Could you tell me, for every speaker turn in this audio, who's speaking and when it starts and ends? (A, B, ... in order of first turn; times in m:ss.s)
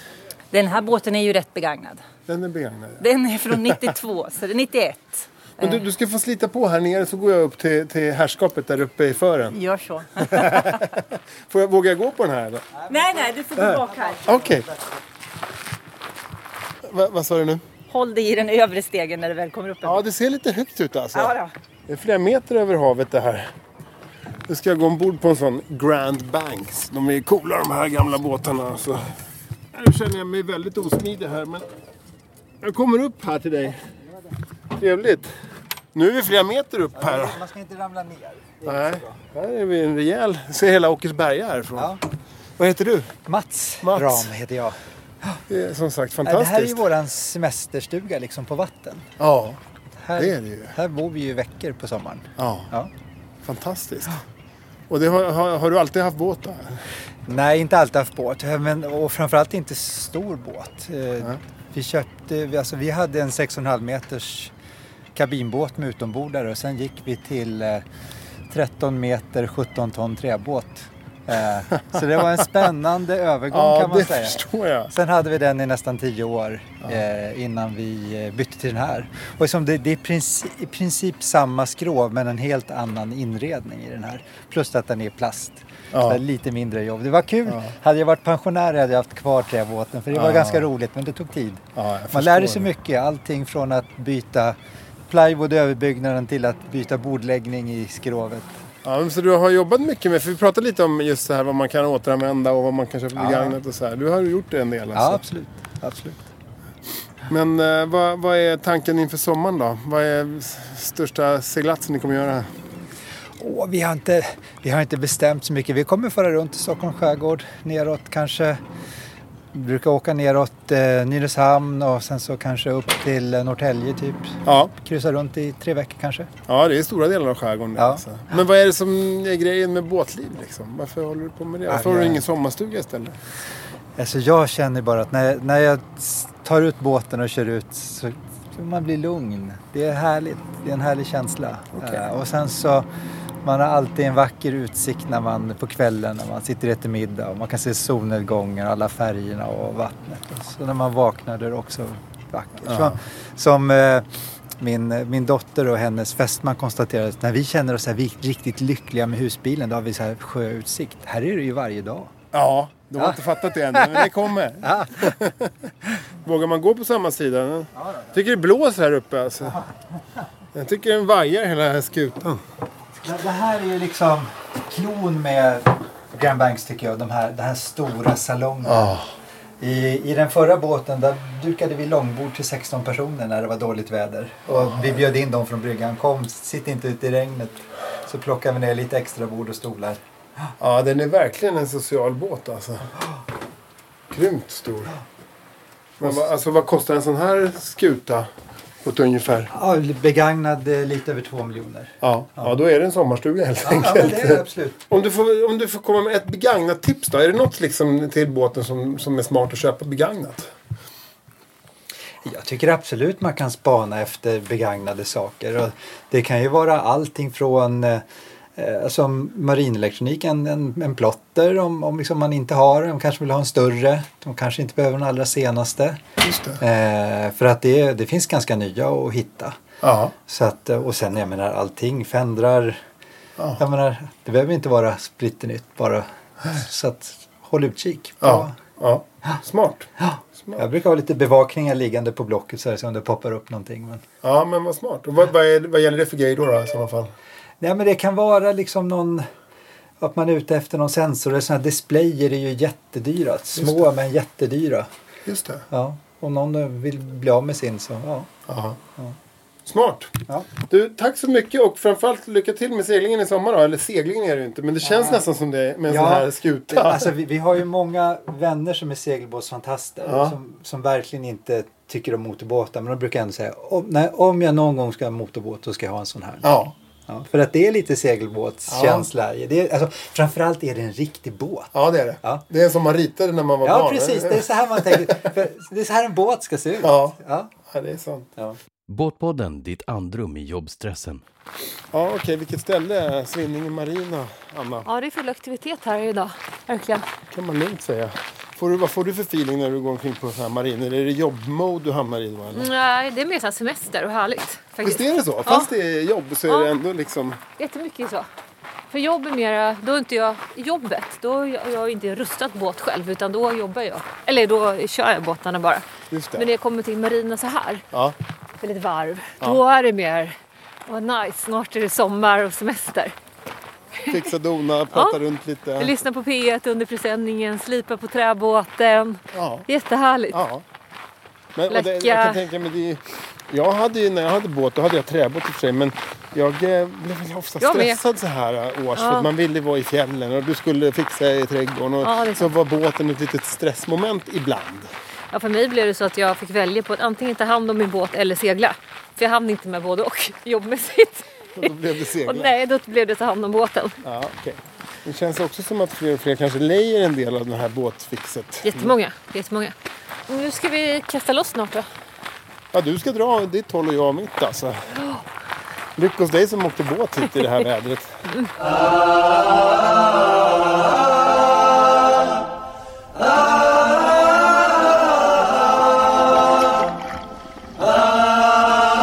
0:00.5-0:02.0 A
0:02.3-0:03.1 B
0:03.0-0:05.8 A
0:05.6-0:09.6 B
0:09.5-0:10.8 A
0:10.2-0:12.6 B
0:12.9-0:14.4 A
0:13.0-0:14.8 C
0:13.6-0:14.6 B
0:16.9-0:17.6 B
0:17.9-0:20.1 A
0:19.8-0:23.4 B
0:21.1-0:21.5 A
0:24.5-0:29.0 B
0:29.7-0:31.6 B
0:32.6-0:33.8 B
0:34.8-0:35.3 B
0:35.9-0:37.4 B
0:36.9-0:39.2 C
0:38.6-0:41.9 B
0:42.6-0:45.4 C
0:43.8-0:44.3 B
0:45.5-0:46.8 B
0:46.2-0:49.1 C
0:49.2-0:49.6 B
0:50.0-0:52.9 C
0:50.2-0:50.8 B
0:52.4-0:52.7 B
0:53.4-0:54.2 B
0:54.9-0:56.8 B
0:57.3-1:04.5 C
1:05.1-1:07.8 C
1:08.5-1:34.6 C
1:13.5-1:14.9 B
1:25.9-1:26.2 B
1:30.1-1:30.6 B
1:31.8-1:32.7 B
1:35.1-1:38.5 C
1:38.8-1:45.2 B
1:43.2-1:43.6 C
1:44.9-1:46.2 C
1:47.3-1:52.4 B
1:53.4-1:58.6 C
1:59.5-2:06.3 C
2:04.4-2:04.7 B
2:06.5-2:13.2 B
2:07.8-2:08.0 C
2:11.7-2:12.2 C
2:14.0-2:22.8 C
2:23.4-2:34.0 C
2:32.6-2:32.9 B
2:34.6-2:42.1 C
2:42.3-2:45.5 B
2:43.0-2:45.1 C
2:46.2-2:49.6 B
2:50.5-2:52.4 B
2:53.0-2:58.9 C
2:58.6-2:59.0 B
2:59.6-3:10.0 C
3:10.6-3:12.9 B
3:14.1-3:15.0 B
3:16.0-3:18.3 B
3:18.8-3:19.5 B
3:19.5-3:22.5 C
3:22.0-3:30.4 B
3:23.6-3:24.8 C
3:32.2-3:38.0 C
3:38.6-3:46.0 C
3:46.2-3:46.6 B
3:46.6-3:49.6 C
3:49.8-3:50.1 B
3:50.2-3:52.8 C
3:53.6-3:58.6 C
3:58.2-3:59.9 B
4:00.0-4:04.0 C
4:00.4-4:00.7 B
4:04.2-4:07.1 B
4:07.6-4:09.2 C
4:10.0-4:14.9 C
4:13.6-4:13.8 B
4:15.2-4:15.6 B
4:15.7-4:18.3 C
4:18.5-4:18.8 B
4:19.6-4:20.1 B
4:20.7-4:27.1 B
4:25.9-4:36.6 C
4:30.0-4:30.4 B
4:36.4-4:36.7 B
4:37.1-4:42.4 C
4:38.7-4:39.1 B
4:41.7-4:45.1 B
4:43.6-4:47.5 C
4:46.8-4:48.3 B
4:48.9-4:51.2 D
4:51.9-4:54.8 B
4:54.8-4:57.0 E
4:57.3-5:02.7 B
5:02.5-5:05.7 E
5:04.8-5:07.4 B
5:07.6-5:08.2 E
5:08.9-5:15.8 E
5:16.1-5:16.5 B
5:16.4-5:17.8 E
5:18.6-5:20.3 E
5:20.9-5:23.1 E
5:24.1-5:25.9 B
5:24.9-5:25.2 E
5:25.8-5:30.4 E
5:29.3-5:29.7 B
5:30.3-5:30.6 B
5:31.6-5:44.9 B
5:31.7-5:32.4 E
5:37.6-5:38.0 E
5:38.9-5:39.3 E
5:42.0-5:42.5 E
5:45.3-5:51.3 E
5:51.6-5:52.5 B
5:52.2-5:53.9 E
5:54.0-5:59.0 B
5:58.6-5:59.7 E
6:00.3-6:01.8 E
6:02.7-6:04.7 B
6:06.0-6:08.0 B